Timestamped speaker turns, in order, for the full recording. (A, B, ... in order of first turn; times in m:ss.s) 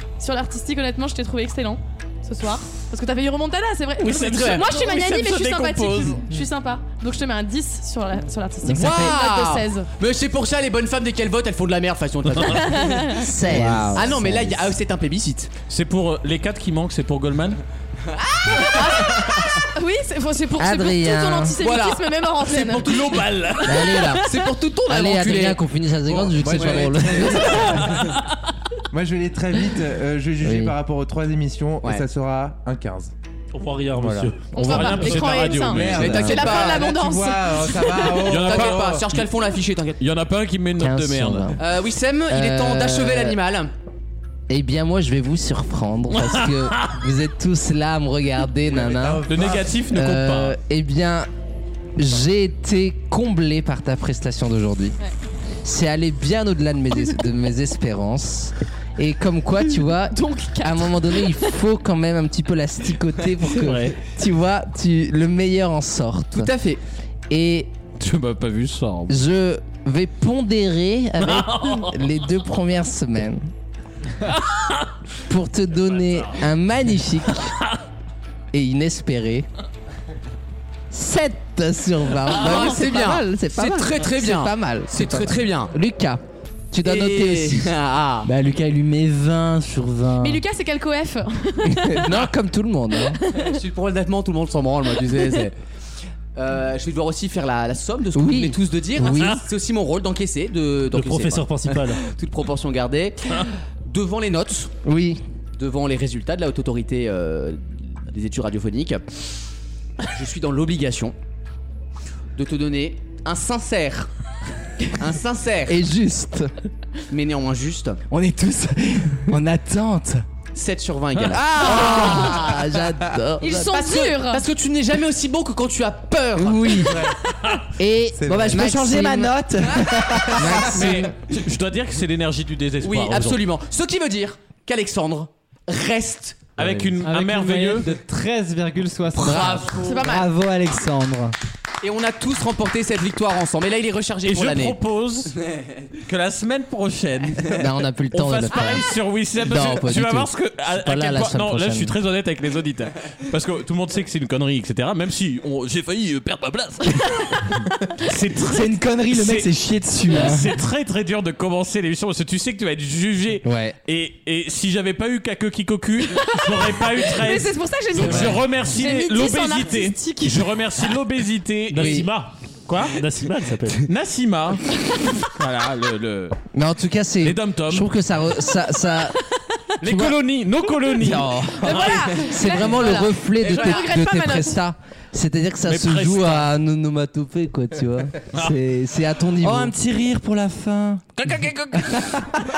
0:00.2-0:09.9 A
0:04.0-0:06.2 B
0:04.2-0:04.6 C
0:08.6-0:09.1 D
0:08.7-0:13.1 C
0:12.5-0:13.4 A
0:13.3-0:14.0 E
0:13.4-0:14.7 D
0:13.9-0:15.5 C
0:15.7-0:17.6 B
0:18.2-0:19.3 C
0:18.5-0:23.5 A
0:20.6-0:21.6 E
0:21.6-0:23.2 C
0:23.1-0:23.9 F
0:23.6-0:28.0 E
0:24.2-0:25.6 C
0:26.0-0:28.2 G
0:26.4-0:27.5 C
0:28.9-0:33.1 G
0:30.4-0:30.8 E
0:33.5-0:35.2 F
0:33.9-0:34.4 G
0:34.5-0:36.2 B
0:34.5-0:38.3 A
0:35.2-0:36.9 C
0:35.7-0:39.0 G
0:38.2-0:39.2 B
0:38.2-0:40.0 C
0:40.0-0:41.5 B
0:40.8-0:41.6 E
0:41.6-0:43.7 C
0:42.3-0:43.4 E
0:44.5-0:49.3 E
0:48.6-0:49.8 G
0:49.3-0:50.6 B
0:49.9-0:51.3 E
0:52.0-0:55.0 E
0:55.6-1:06.5 E
1:00.1-1:01.5 A
1:03.6-1:03.9 F
1:06.4-1:06.8 C
1:07.3-1:07.7 E
1:08.0-1:09.2 B
1:09.1-1:13.5 E
1:11.2-1:11.9 B
1:14.5-1:14.8 B
1:15.3-1:17.6 E
1:18.5-1:19.5 E
1:20.9-1:27.7 E
1:22.3-1:25.7 C
1:22.5-1:22.8 A
1:26.8-1:28.3 C
1:28.2-1:30.4 D
1:30.2-1:32.2 A
1:31.7-1:33.2 E
1:33.1-1:33.5 A
1:33.3-1:35.6 C
1:36.4-1:44.7 C
1:38.2-1:39.4 E
1:39.0-1:39.3 F
1:40.9-1:42.0 F
1:44.8-1:45.2 E
1:45.6-1:49.1 C
1:50.1-1:51.2 C
1:52.4-1:54.1 C
1:54.9-1:55.8 C
1:55.7-1:56.5 E
1:57.1-1:58.0 C
1:58.1-2:00.2 D
2:00.5-2:02.7 C
2:01.2-2:01.4 B
2:01.3-2:03.8 E
2:01.6-2:02.3 A
2:03.4-2:04.5 A
2:03.7-2:06.9 C
2:06.4-2:07.1 E
2:06.9-2:07.2 G
2:07.8-2:09.4 E
2:08.2-2:08.6 G
2:08.2-2:11.0 D
2:10.2-2:10.6 G
2:10.4-2:11.2 E
2:10.6-2:13.4 B
2:12.8-2:16.5 C
2:16.6-2:17.9 B
2:17.0-2:19.8 H
2:19.2-2:20.3 C
2:19.8-2:20.2 A
2:19.9-2:21.4 D
2:21.8-2:24.8 C
2:24.2-2:25.4 B
2:26.0-2:52.1 B
2:27.5-2:32.0 E
2:38.4-2:40.6 D
2:43.4-2:43.8 E
2:46.3-2:50.9 A
2:51.7-2:52.3 F
2:51.7-2:52.1 E
2:52.7-2:53.0 B
2:52.9-2:53.9 F
2:53.8-2:54.7 B
2:55.3-2:56.4 B
2:56.5-2:59.2 E
2:57.2-2:57.9 B
2:59.8-3:02.1 B
2:59.8-3:00.2 E
3:01.0-3:09.7 E
3:01.6-3:04.6 A
3:03.4-3:04.0 C
3:05.7-3:06.5 B
3:09.4-3:11.0 D
3:11.2-3:12.0 B
3:11.8-3:12.2 E